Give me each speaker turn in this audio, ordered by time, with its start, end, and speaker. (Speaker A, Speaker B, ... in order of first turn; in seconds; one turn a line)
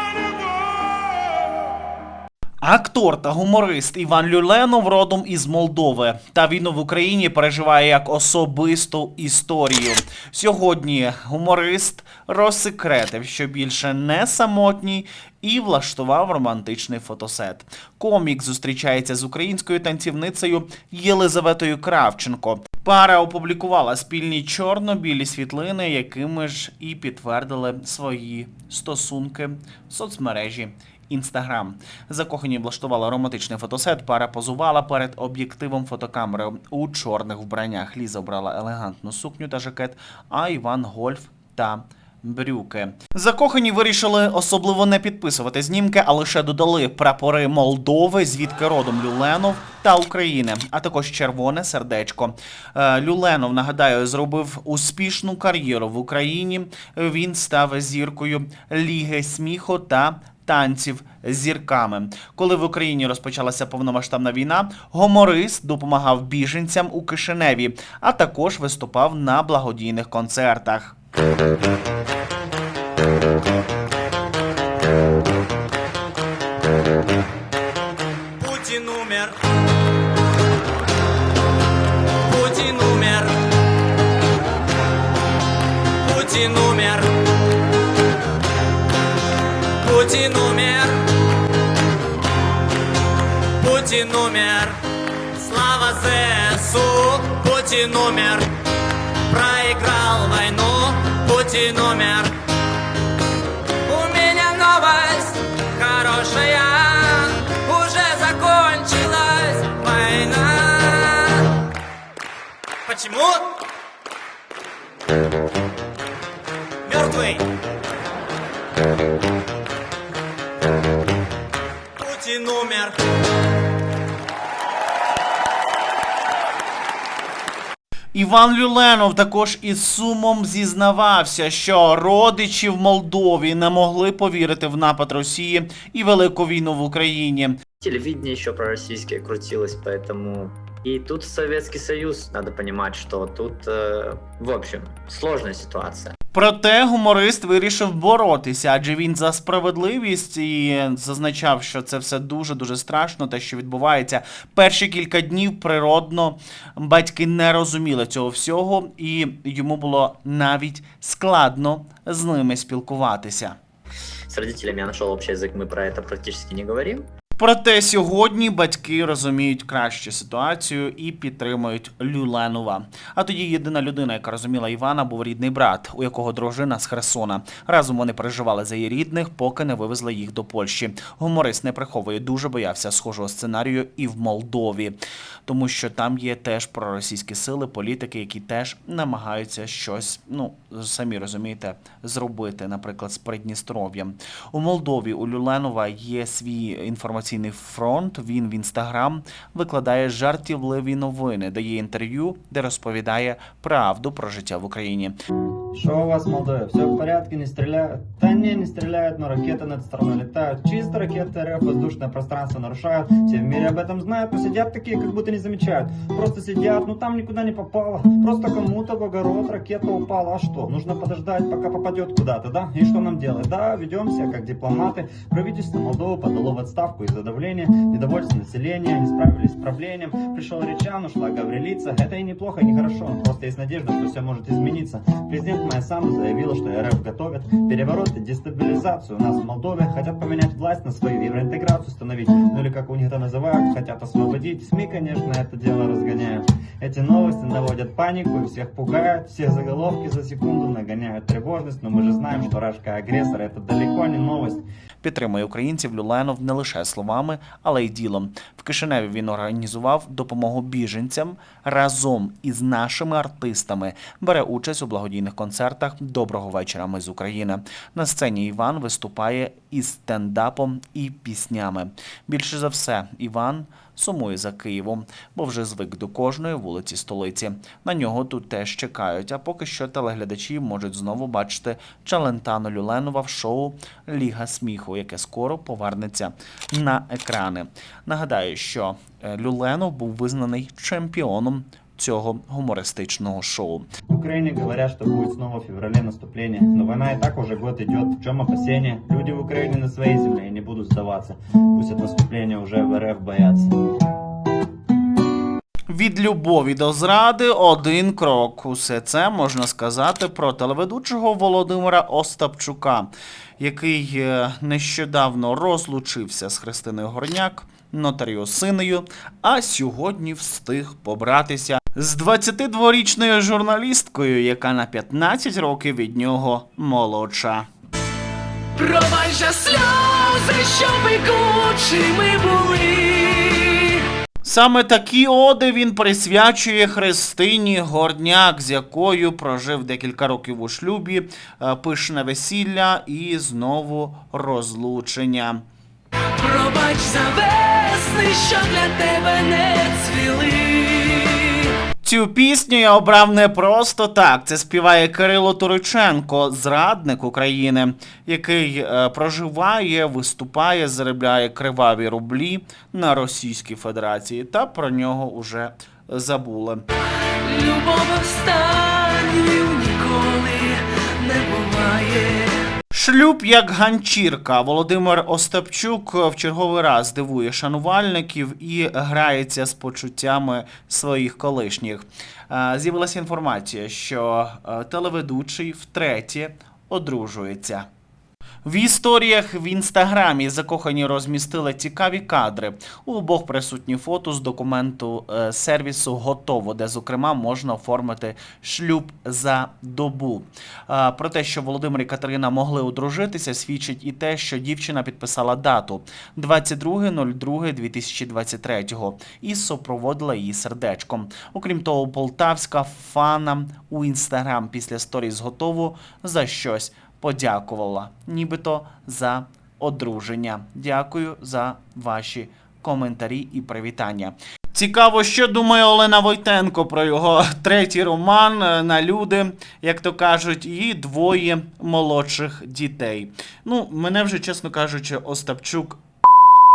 Speaker A: 2.6-71.0
Speaker B: 78.4-79.3
Speaker B: 82.3-83.3
Speaker B: 86.0-87.1
Speaker B: 89.8-91.0
Speaker B: 93.6-94.8
Speaker B: 95.4-98.5
Speaker B: 99.3-102.3
Speaker B: 103.9-111.5
Speaker B: 112.9-113.5
Speaker B: 116.9-117.4
Speaker B: 122.0-123.0
Speaker A: 128.1-137.6
Speaker C: 137.8-146.1
Speaker A: 146.3-163.6
Speaker C: 164.3-167.1
Speaker A: 167.4-205.1
Speaker D: 205.7-254.6
Speaker A: 255.0-293.9
Speaker D: 294.1-303.7
Speaker A: 305.9-327.7
Speaker E: 328.8-334.0
Speaker A: 334.4-345.6
Speaker E: 346.4-351.7
Speaker A: 352.0-366.8
Speaker E: 367.4-372.6
Speaker A: 372.9-387.9
Speaker A: 388.6-436.0